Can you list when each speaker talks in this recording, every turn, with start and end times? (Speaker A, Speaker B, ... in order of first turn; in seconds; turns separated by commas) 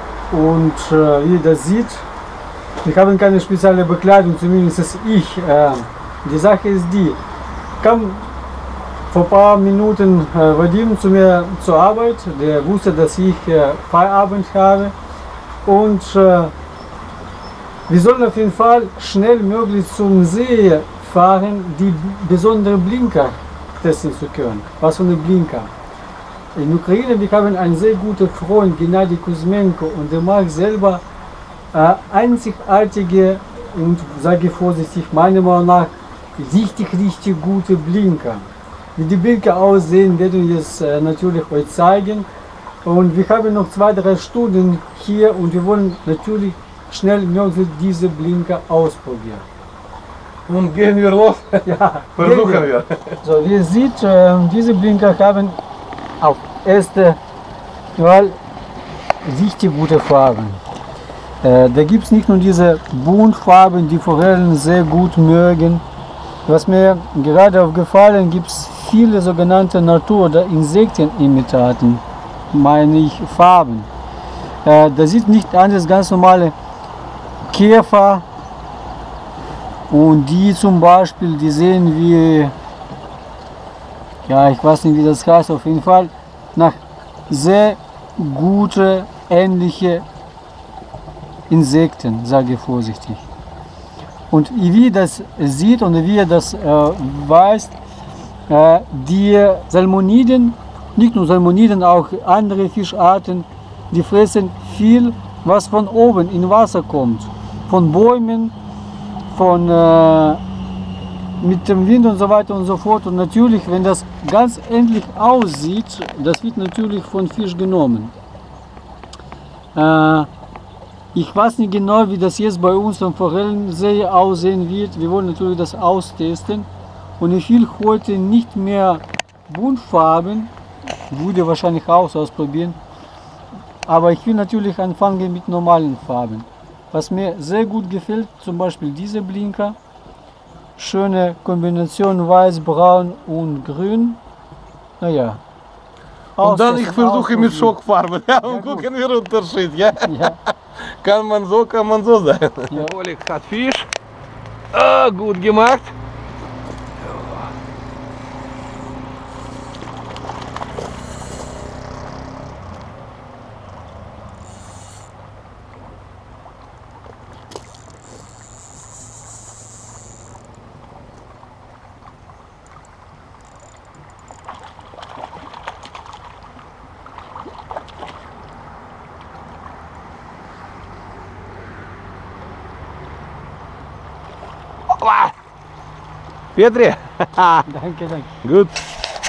Speaker A: 0.3-2.1, Speaker A: 2.8-7.2, Speaker A: 7.8-8.3, Speaker A: 9.1-14.9, Speaker A: 15.7-16.5, Speaker A: 17.9-25.7, Speaker A: 26.6-31.0, Speaker A: 31.7-42.3, Speaker A: 42.9-49.5, Speaker B: 50.5-53.2, Speaker A: 51.6-52.7, Speaker A: 53.2-55.6, Speaker A: 56.2-57.2, Speaker A: 58.0-58.4, Speaker A: 59.2-60.6, Speaker A: 61.4-65.8, Speaker A: 66.5-73.9, Speaker A: 74.7-76.5, Speaker A: 77.5-78.3, Speaker A: 79.9-82.5, Speaker A: 84.2-90.0, Speaker A: 91.5-93.2, Speaker A: 94.3-97.8, Speaker A: 98.5-108.5, Speaker A: 109.3-110.4, Speaker A: 111.4-118.2, Speaker A: 119.8-120.3, Speaker A: 121.1-126.7, Speaker A: 127.2-130.5, Speaker A: 131.1-132.8, Speaker A: 133.9-139.8, Speaker A: 140.8-144.2, Speaker A: 145.0-145.4, Speaker A: 146.4-147.8, Speaker B: 146.4-153.9, Speaker A: 148.4-148.9, Speaker A: 150.1-150.4, Speaker B: 154.7-155.9, Speaker B: 157.1-157.4, Speaker B: 184.9-185.3, Speaker B: 186.6-187.7, Speaker A: 187.7-188.4, Speaker B: 188.4-188.9